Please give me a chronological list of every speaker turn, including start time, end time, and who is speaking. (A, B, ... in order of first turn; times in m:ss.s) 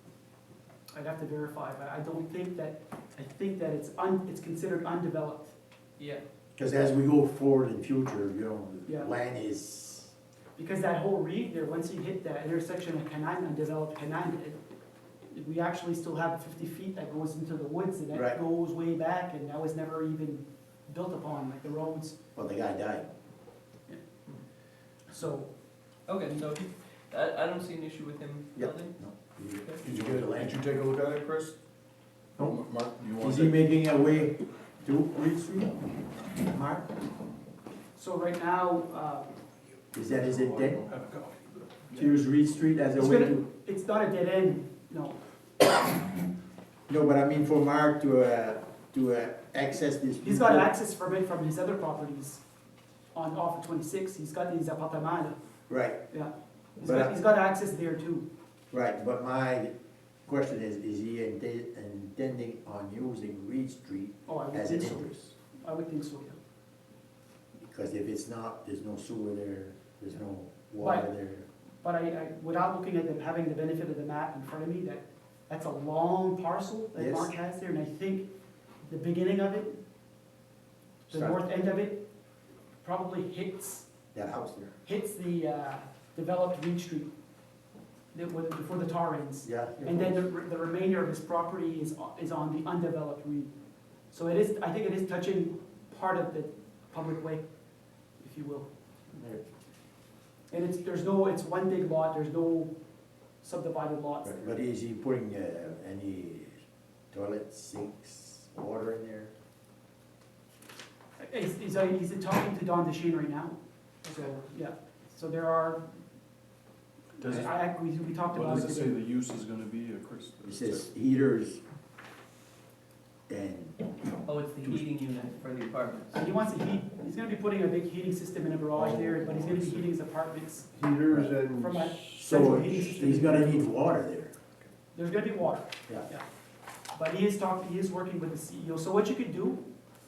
0:00.9-0:05.6 A
0:06.6-0:10.1 B
0:10.6-0:14.6 A
0:15.3-0:22.2 A
0:18.1-0:18.4 B
0:22.4-0:23.1 B
0:25.1-0:25.5 A
0:26.1-0:29.0 C
0:28.6-0:30.7 B
0:29.8-0:31.6 D
0:32.4-0:32.6 B
0:32.4-0:33.7 D
0:33.2-0:35.8 B
0:36.4-0:36.9 B
0:38.0-0:39.3 A
0:39.9-0:40.8 B
0:40.0-0:42.0 D
0:42.0-0:43.4 B
0:43.0-0:45.2 A
0:46.9-0:50.7 B
0:50.2-0:52.4 A
0:53.1-0:55.4 A
0:55.7-0:56.0 B
0:56.1-0:58.3 A
0:56.8-0:57.2 B
0:58.7-0:59.7 B
1:00.3-1:05.3 B
1:04.3-1:06.4 A
1:07.6-1:11.5 B
1:10.8-1:11.1 A
1:11.8-1:18.3 A
1:17.0-1:17.3 B
1:18.8-1:19.8 A
1:21.1-1:21.4 B
1:21.1-1:22.0 A
1:22.8-1:23.9 A
1:24.1-1:24.8 B
1:24.8-1:27.1 A
1:28.1-1:33.5 A
1:29.4-1:30.2 B
1:34.1-1:37.5 A
1:38.2-1:38.7 A
1:39.2-1:39.4 B
1:40.5-1:42.7 A
1:43.4-1:44.5 A
1:44.2-1:49.3 B
1:51.2-1:55.9 A
1:54.0-1:54.3 C
1:57.2-1:57.5 D
1:57.2-1:59.0 A
1:58.3-2:00.9 D
2:00.4-2:01.6 B
2:03.3-2:04.8 B
2:04.2-2:06.2 C
2:06.1-2:10.7 A
2:08.8-2:09.9 D
2:10.7-2:13.5 E
2:11.6-2:13.7 A
2:12.2-2:14.3 B
2:14.9-2:16.2 A
2:16.9-2:19.6 A